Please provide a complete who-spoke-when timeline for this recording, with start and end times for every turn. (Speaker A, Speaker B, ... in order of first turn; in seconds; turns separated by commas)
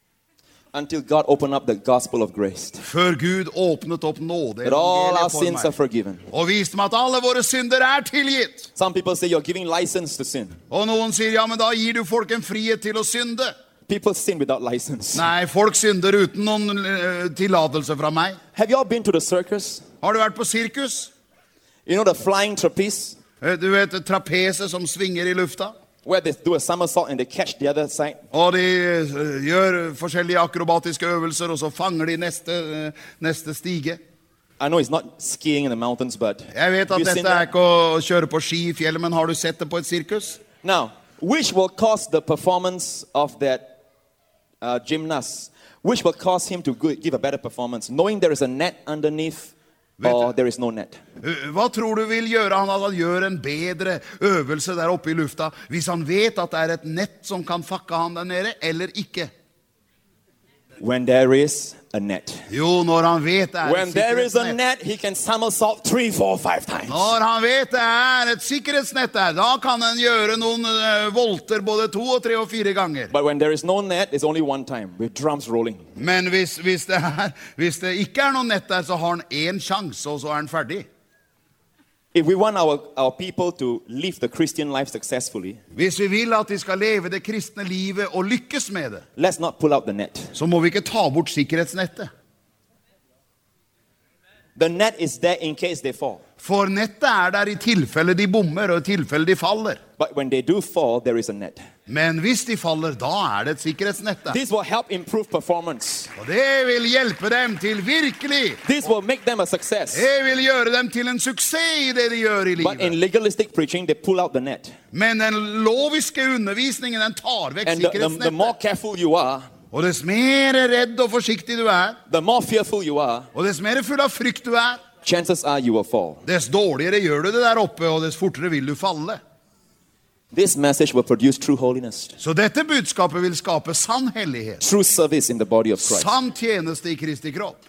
Speaker A: 0.7-2.8, Speaker B: 2.8-5.7, Speaker A: 4.6-6.2, Speaker B: 6.3-8.7, Speaker A: 8.8-10.6, Speaker B: 10.7-13.5, Speaker A: 13.9-15.2, Speaker B: 15.1-18.4, Speaker A: 18.5-19.8, Speaker B: 20.0-21.1, Speaker A: 21.9-23.2, Speaker B: 23.4-25.7, Speaker A: 26.0-28.2, Speaker B: 28.3-34.0, Speaker A: 34.6-37.5, Speaker B: 36.5-40.4, Speaker A: 40.6-43.7, Speaker A: 44.6-51.0, Speaker B: 50.0-50.3, Speaker B: 51.2-59.3, Speaker A: 60.8-62.4, Speaker B: 62.5-64.6, Speaker A: 63.6-67.1, Speaker B: 66.9-73.1, Speaker A: 73.1-75.8, Speaker B: 76.0-80.8, Speaker A: 82.1-85.6, Speaker B: 85.7-89.0, Speaker A: 89.2-90.3, Speaker B: 90.3-92.1, Speaker A: 94.5-96.2, Speaker B: 96.4-99.8, Speaker A: 100.0-101.6, Speaker B: 101.9-104.4, Speaker A: 104.3-106.1, Speaker B: 106.2-108.6, Speaker A: 108.6-110.0, Speaker B: 109.9-113.0, Speaker A: 112.6-114.7, Speaker B: 114.9-118.5, Speaker A: 117.6-119.5, Speaker B: 119.7-122.0, Speaker A: 122.1-123.3, Speaker B: 123.3-124.8, Speaker A: 125.0-126.2, Speaker B: 126.2-129.2, Speaker A: 130.3-132.2, Speaker B: 132.2-134.6, Speaker A: 134.6-136.1, Speaker B: 135.8-137.6